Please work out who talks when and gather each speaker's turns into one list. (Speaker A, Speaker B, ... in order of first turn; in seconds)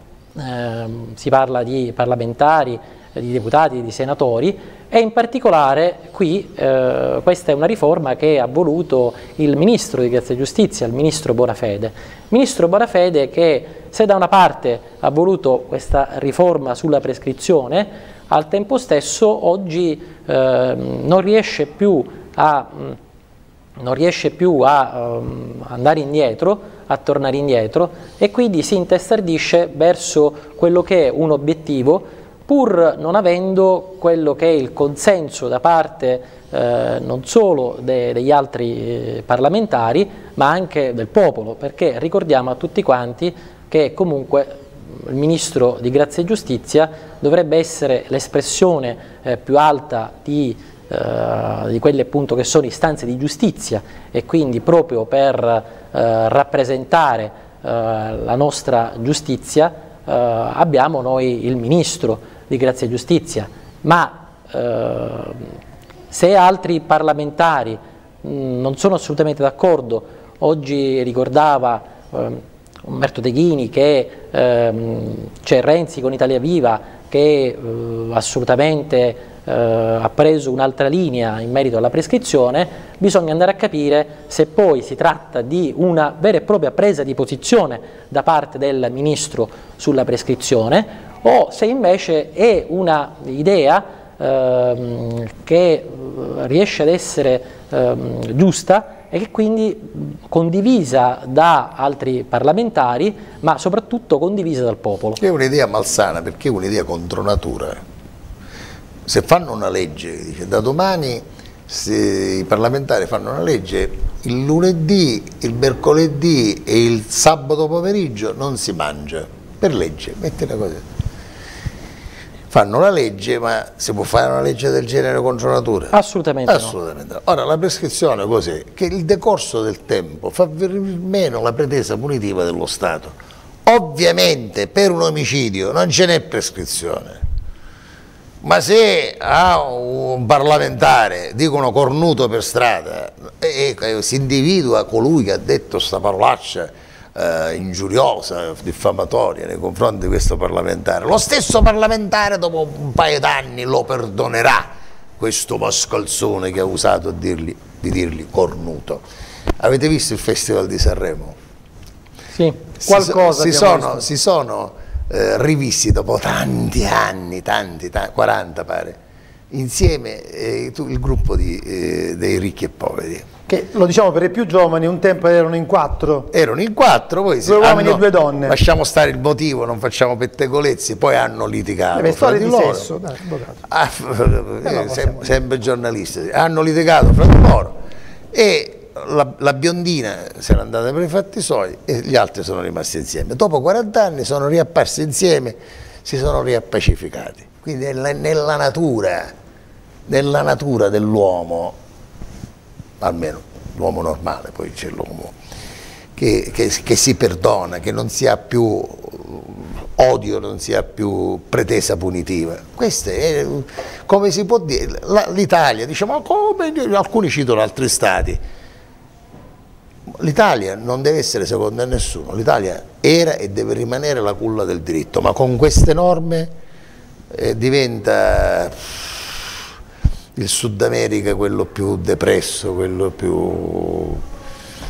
Speaker A: 0.3-23.0, 23.8-65.5, 66.1-105.2, 125.9-126.7
Speaker B: 105.2-107.8, 109.0-120.8, 122.5-126.0, 126.5-133.1, 133.6-137.2, 138.4-159.0, 159.6-161.3, 162.8-169.0, 169.5-173.3, 176.3-182.9, 183.7-187.7, 188.3-199.3, 200.1-201.8, 203.0-205.3, 206.2-218.4, 220.2-226.5, 227.3-229.6, 230.3-234.2
Speaker C: 162.8-164.1, 173.5-176.3, 177.4-178.6, 181.9-183.6, 184.6-185.4